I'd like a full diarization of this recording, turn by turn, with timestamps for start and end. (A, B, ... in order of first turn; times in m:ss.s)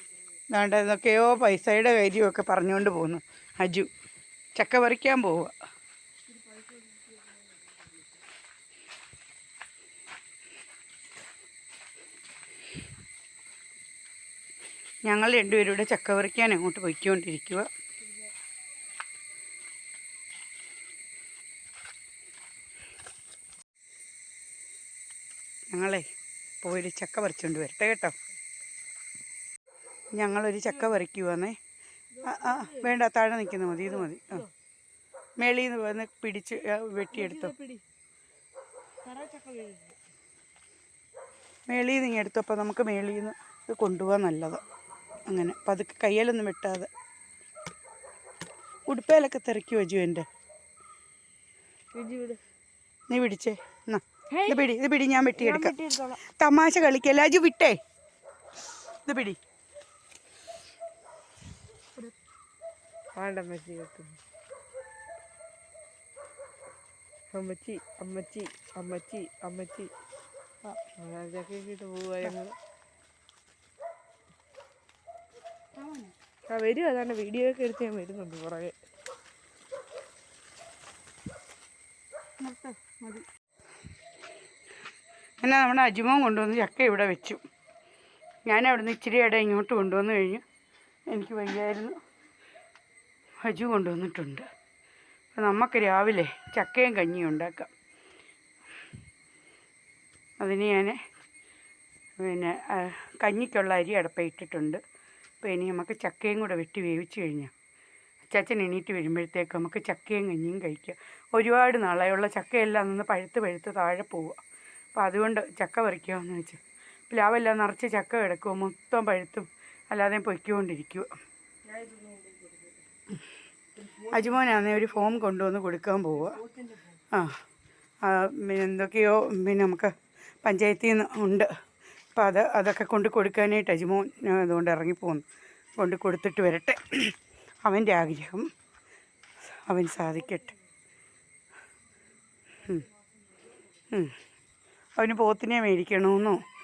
0:00.5-0:03.9 A
0:04.6-0:05.5 A
0:15.0-0:17.7 A
0:25.7-0:26.0 A
0:26.6-0:28.1 A
0:30.2-0:31.6 A
0:32.2-0:32.9 B
0:32.2-0:34.5 A
0:35.4-0:37.5 A
0:37.1-0:37.8 B
0:39.0-0:40.0 B
0:41.7-0:44.6 A
0:45.3-0:46.9 A
0:48.9-0:50.3 A
0:51.9-0:52.4 B
0:53.1-0:57.8 A
0:55.4-0:56.2 B
0:59.0-0:59.4 A
1:03.1-1:04.2 B
1:07.3-1:09.9 B
1:10.9-1:12.6 B
1:16.5-1:18.8 B
1:22.4-1:23.2 B
1:25.4-1:27.4 A
1:28.4-1:30.4 A
1:31.1-1:32.0 A
1:33.4-1:34.5 A
1:35.3-1:37.7 A
1:40.4-1:41.0 A
1:42.2-1:44.8 A
1:45.4-1:47.5 A
1:48.3-1:54.4 A
1:55.0-2:01.1 A
2:01.7-2:02.8 B
2:03.8-2:04.3 B
2:04.1-2:06.4 A
2:06.3-2:07.0 B
2:08.0-2:09.9 A
2:10.4-2:11.5 A
2:12.2-2:15.2 A
2:15.8-2:18.5 A
2:19.7-2:20.6 A
2:25.0-2:26.4 A